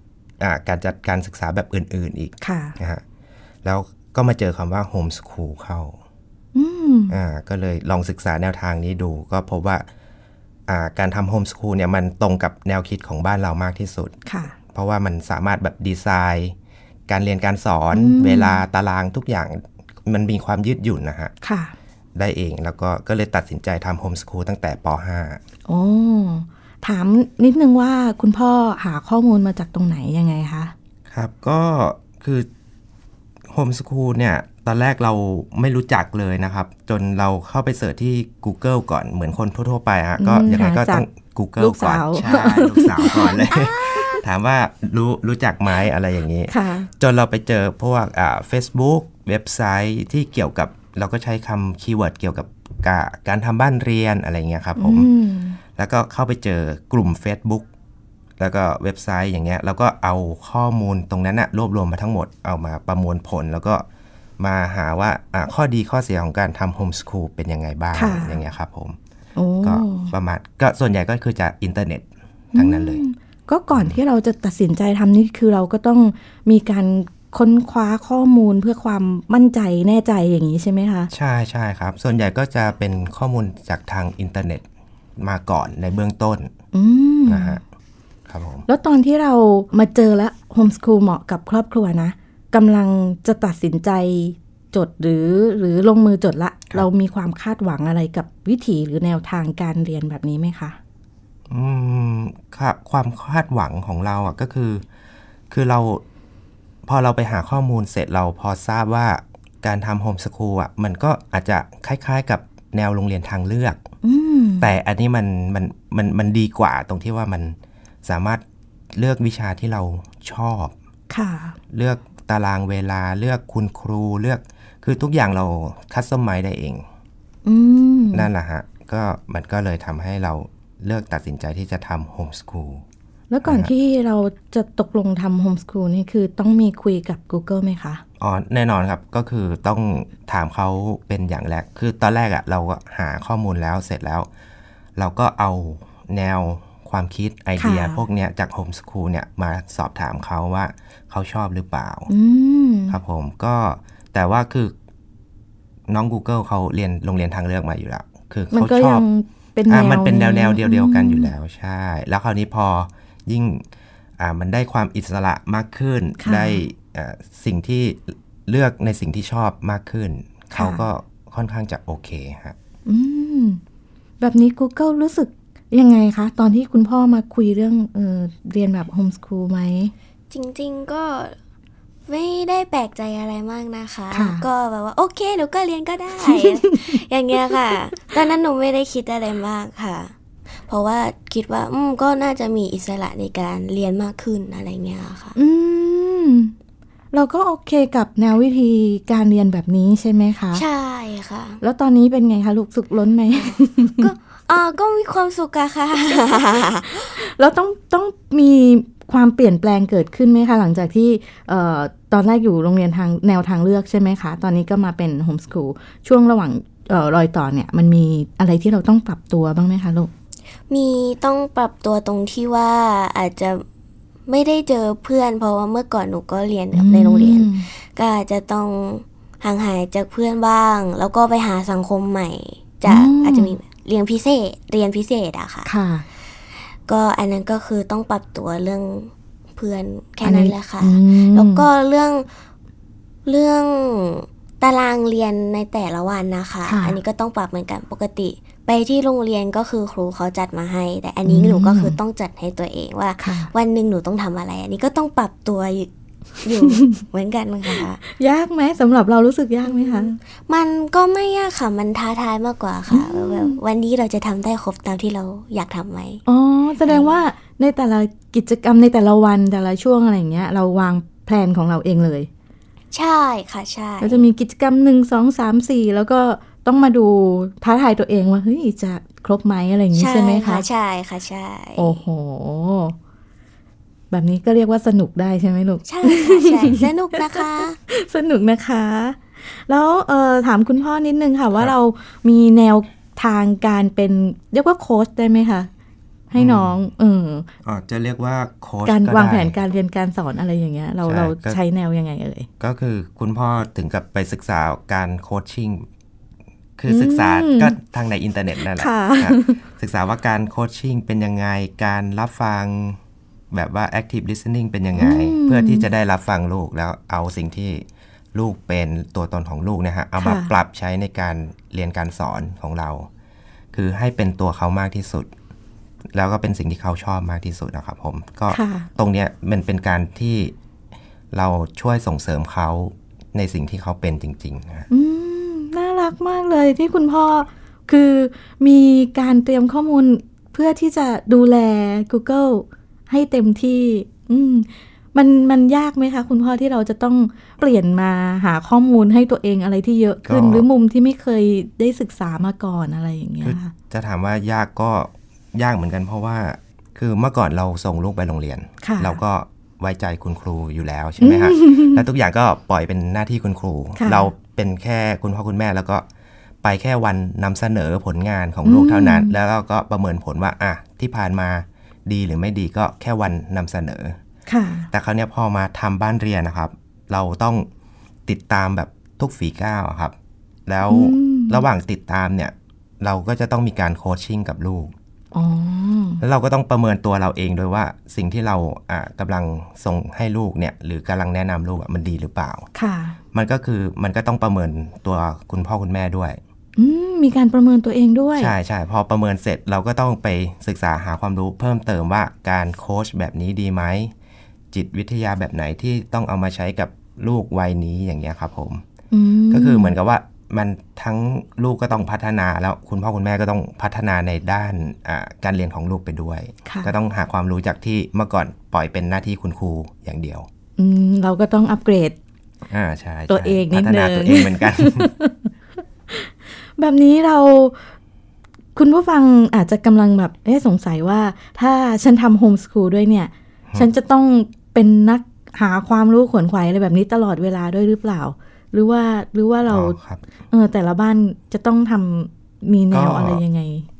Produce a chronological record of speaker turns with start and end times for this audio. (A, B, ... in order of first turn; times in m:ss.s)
0:00.4-0:03.0 A
0:02.4-0:02.8 B
0:03.6-0:06.0 A
0:06.5-0:07.1 B
0:07.1-0:09.9 A
0:10.7-0:14.1 A
0:14.3-0:14.5 B
0:14.7-0:16.6 A
0:17.1-0:21.3 A
0:17.9-0:18.6 B
0:21.4-0:21.7 B
0:22.2-0:25.4 A
0:25.7-0:30.7 B
0:31.1-0:32.5 A
0:33.5-0:55.1 A
0:40.2-0:41.0 B
0:41.6-0:43.5 B
0:46.5-0:46.9 B
0:54.8-0:55.6 B
0:55.8-0:57.7 A
0:58.4-1:03.8 A
1:04.4-1:09.0 A
1:07.9-1:08.4 B
1:09.4-1:10.1 B
1:09.6-1:13.0 A
1:12.5-1:21.1 B
1:13.7-1:14.0 A
1:21.1-1:24.6 A
1:25.2-1:26.5 A
1:26.7-1:27.6 B
1:27.3-1:27.6 A
1:28.3-1:28.7 A
1:28.7-1:40.8 B
1:41.5-1:44.8 A
1:45.5-1:46.0 A
1:46.9-1:53.8 A
1:54.0-1:54.7 B
1:54.6-2:00.7 A
2:01.1-2:01.6 B
2:01.7-2:06.8 A
2:07.4-2:08.3 B
2:08.1-2:12.8 A
2:13.3-2:18.0 B
2:13.4-2:13.7 A
2:18.2-2:24.3 A
2:25.0-2:32.1 A
2:27.6-2:28.0 B
2:32.1-2:33.0 B
2:32.9-2:34.7 A
2:35.9-2:39.1 A
2:38.5-2:41.3 B
2:39.7-2:43.6 A
2:44.2-2:52.6 A
2:46.2-2:46.6 B
2:50.5-2:50.8 B
2:52.9-2:53.6 B
2:54.2-2:59.9 B
3:00.3-3:01.4 C
3:02.1-3:10.1 C
3:04.1-3:04.4 B
3:06.3-3:07.0 B
3:10.7-3:15.4 C
3:15.4-3:16.5 B
3:17.1-3:20.6 B
3:20.5-3:21.6 C
3:21.6-3:24.1 B
3:23.3-3:27.1 C
3:27.1-3:40.1 B
3:40.7-3:43.6 C
3:44.3-3:55.7 C
3:46.7-3:47.7 B
3:52.9-3:53.6 B
3:55.6-3:56.0 B
3:56.9-4:02.3 C
4:00.2-4:01.6 B
4:03.3-4:15.9 C
4:06.7-4:07.0 B
4:11.2-4:12.0 B
4:13.2-4:13.5 B
4:16.4-4:18.0 C
4:16.7-4:17.0 B
4:18.0-4:20.2 B
4:19.7-4:26.2 C
4:22.9-4:23.6 B
4:26.3-4:32.3 B
4:32.9-4:34.3 C
4:34.0-4:40.6 B
4:39.9-4:42.0 C
4:41.8-4:43.0 B
4:44.1-4:55.7 B
4:45.9-4:47.8 C
4:56.3-4:57.5 B
4:56.4-4:56.8 A
4:57.6-4:59.6 A
4:58.9-5:02.5 B
5:01.0-5:01.6 A
5:02.6-5:05.9 A
5:06.8-5:13.0 A
5:06.9-5:07.8 B
5:08.8-5:09.6 B
5:13.5-5:23.1 A
5:15.0-5:15.9 B
5:20.2-5:20.5 B
5:23.7-5:25.3 A
5:26.1-5:30.5 A
5:28.5-5:28.9 B
5:31.3-5:34.9 A
5:34.9-5:53.7 B
5:50.2-5:50.7 A
5:53.4-6:06.0 A
5:58.8-5:59.2 B
6:01.2-6:02.0 B
6:04.0-6:04.3 B
6:06.6-6:14.2 A
6:08.6-6:09.3 B
6:14.5-6:14.9 B
6:14.9-6:17.7 A
6:18.3-6:20.2 A
6:20.7-6:24.9 A
6:20.9-6:21.6 B
6:25.3-6:26.2 B
6:26.2-6:32.7 A
6:32.8-6:33.2 B
6:33.3-6:36.4 A
6:36.8-6:38.5 B
6:38.4-6:44.1 A
6:44.7-6:48.8 A
6:49.1-6:50.0 B
6:49.5-7:00.5 A
6:56.7-6:56.9 B
7:00.8-7:02.2 B
7:02.7-7:05.1 A
7:03.3-7:05.5 B
7:06.1-7:07.8 B
7:08.8-7:20.0 B
7:19.7-7:20.2 A
7:20.5-7:23.9 B
7:22.9-7:23.4 A